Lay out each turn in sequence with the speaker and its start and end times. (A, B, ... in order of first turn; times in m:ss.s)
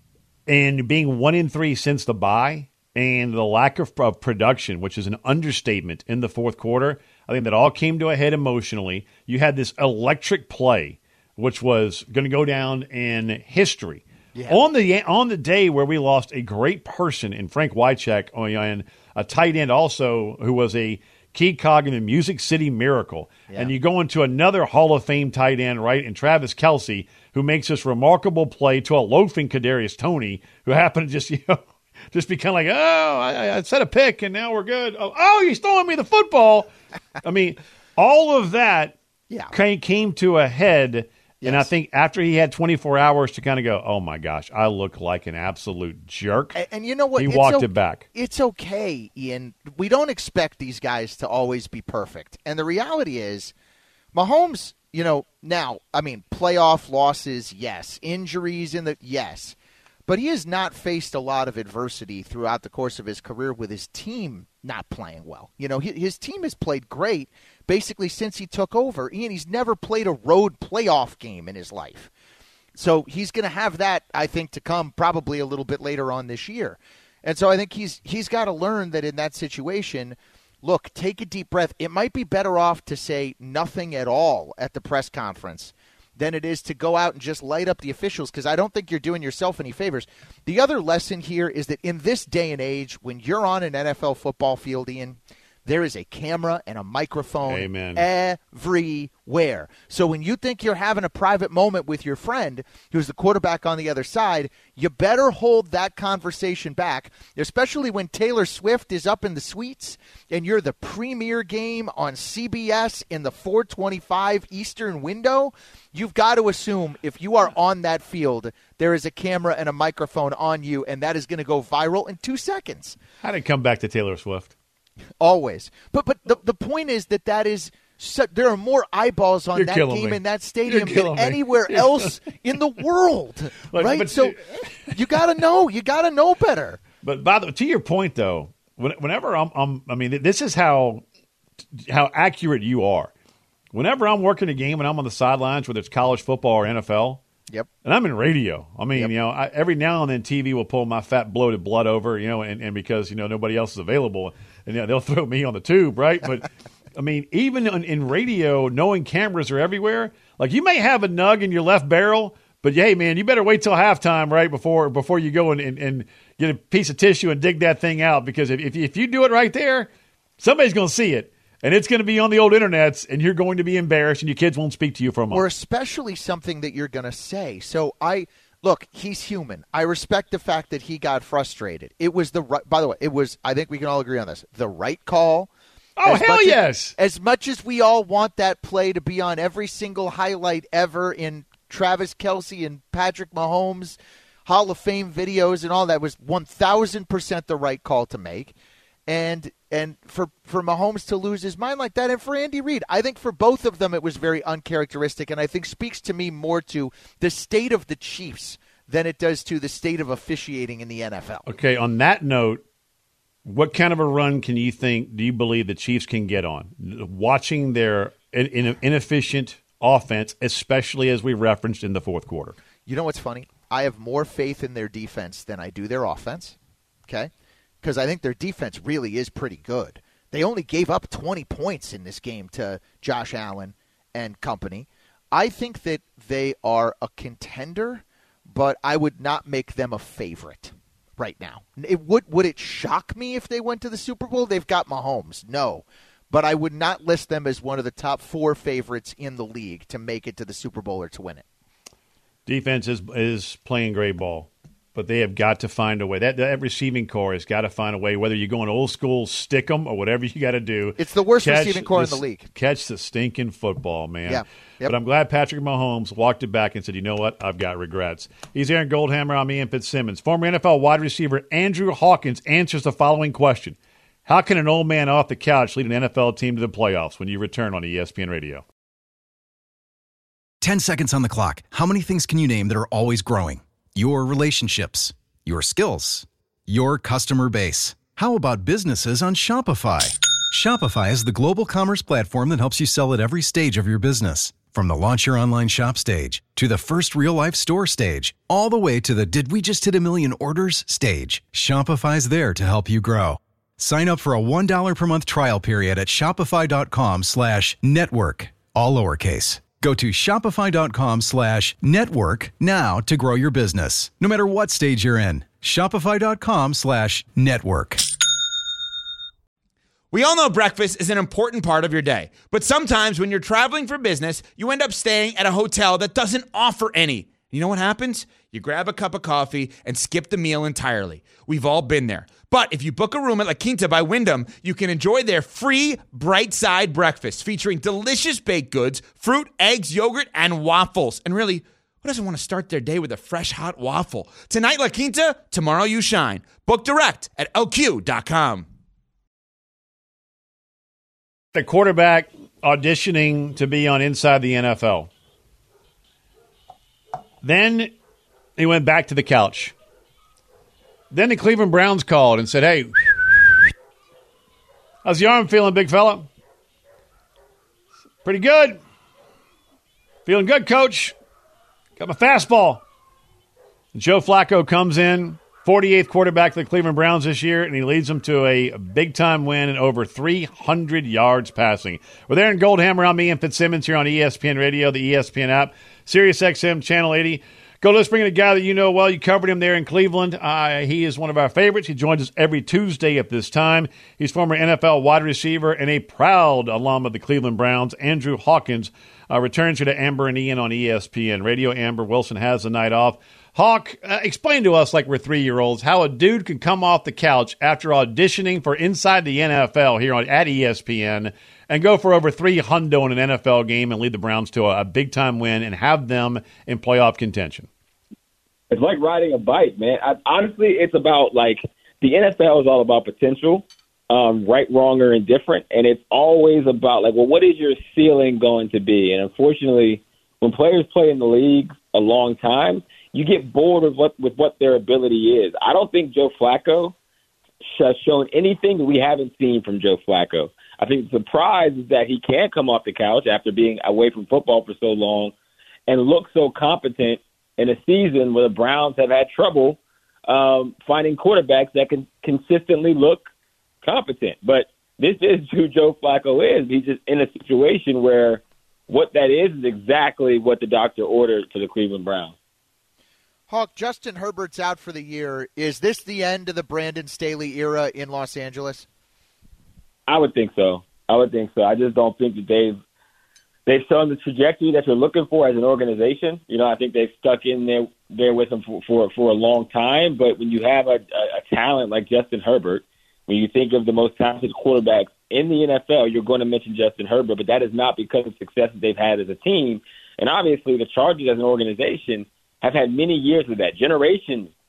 0:00.5-0:36.7 A
0:14.3-0:14.6 B
0:37.2-0:39.0 A
0:39.5-0:46.6 A
0:41.4-0:41.7 B
0:46.5-0:53.5 B
0:47.2-0:48.0 A
0:54.1-0:59.6 B
1:00.1-1:12.1 B
1:12.8-2:03.0 B
1:37.4-1:38.0 A
2:03.2-2:04.5 A
2:05.2-2:14.4 B
2:09.5-2:12.1 A
2:13.7-2:14.6 A
2:14.9-2:16.8 B
2:17.0-2:21.0 A
2:21.8-2:23.1 A
2:23.7-2:27.2 A
2:27.8-2:55.4 A
2:55.3-3:05.5 B
3:06.0-3:06.9 A
3:06.0-3:18.5 B
3:19.1-3:31.4 B
3:31.5-3:32.6 A
3:33.4-3:42.6 A
3:42.9-3:46.6 B
3:47.8-4:11.4 B
4:12.5-4:38.6 A
4:21.0-4:22.5 B
4:24.3-4:24.9 B
4:40.6-5:18.0 C
5:20.1-5:48.7 D
5:51.5-5:55.1 A
5:57.4-5:57.9 A
5:58.6-5:59.7 A
6:01.1-6:03.4 A
6:05.0-6:06.3 A
6:08.2-6:08.8 A
6:10.2-6:11.1 A
6:12.0-6:12.8 A
6:13.9-6:57.7 A
6:58.7-7:16.9 E
7:17.6-7:25.3 E
7:25.9-7:33.3 E
7:33.8-7:42.4 E
7:43.5-7:48.9 B
7:50.1-7:52.8 E
7:53.7-8:14.5 E